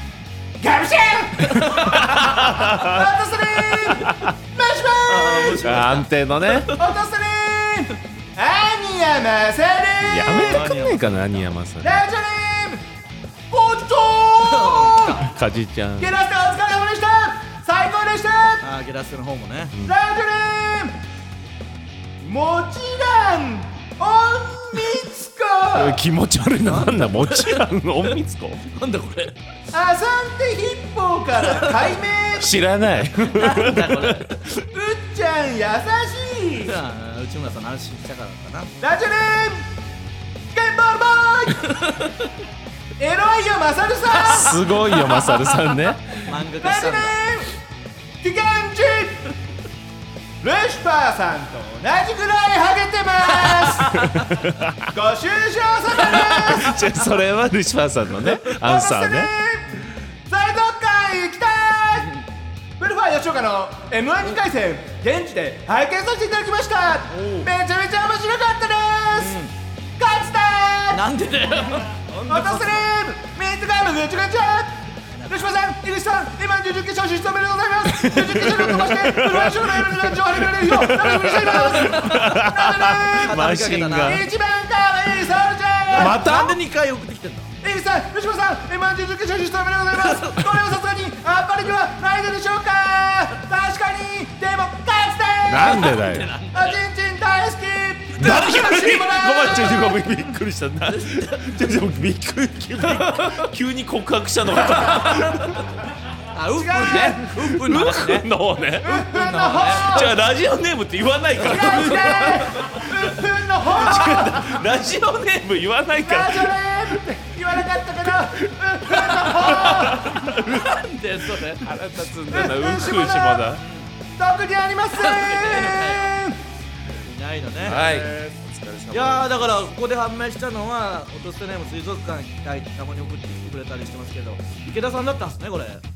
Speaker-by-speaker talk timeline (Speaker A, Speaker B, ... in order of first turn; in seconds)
Speaker A: 0.6-5.8, 6.7-10.8, 11.8-12.8, 13.5-15.3, 16.0-18.6, 19.8-21.0, 22.2-26.0, 29.7-32.6, 34.6-36.8, 38.8-39.7, 40.5-41.9, 43.0-45.2, 46.6-47.5, 48.2-49.3, 50.4-54.3, 54.8-57.1, 58.3-62.1, 62.8-69.4, 70.0-71.1, 72.2-83.5, 84.0-86.3, 87.6-100.1, 106.5-107.3, 108.8-110.2, 111.4-114.7, 116.0-120.5, 122.3-123.5, 124.1-126.4, 127.6-128.3
Speaker B: 1.5-2.0, 5.1-6.8, 10.3-11.3, 14.4-15.2, 18.6-19.7, 26.6-27.6, 28.7-29.4, 31.5-31.8, 33.2-34.4, 36.6-38.7, 41.6-42.3, 44.4-45.5, 46.2-47.2, 62.0-62.2, 67.1-67.5, 69.1-69.5, 70.9-72.9, 75.1-75.4, 81.4-82.4, 83.1-84.2, 85.9-87.5, 90.0-90.6, 95.6-96.8, 100.9-101.6, 102.8-103.5, 104.6-105.6, 106.3-108.3, 108.8-110.1, 111.4-112.9, 119.2-121.8, 123.5-123.9, 124.9-126.2, 126.9-127.8, 128.9-135.8
Speaker C: 1.6-4.3, 5.5-6.7, 10.0-11.9, 15.2-16.1, 25.7-28.6, 32.4-34.6, 44.2-46.4, 53.5-54.9, 56.0-59.3, 77.8-84.2, 86.0-86.5, 95.5-96.3, 98.2-105.6, 107.4-109.0, 109.6-117.0, 117.7-120.7, 121.6-123.6, 127.6-129.4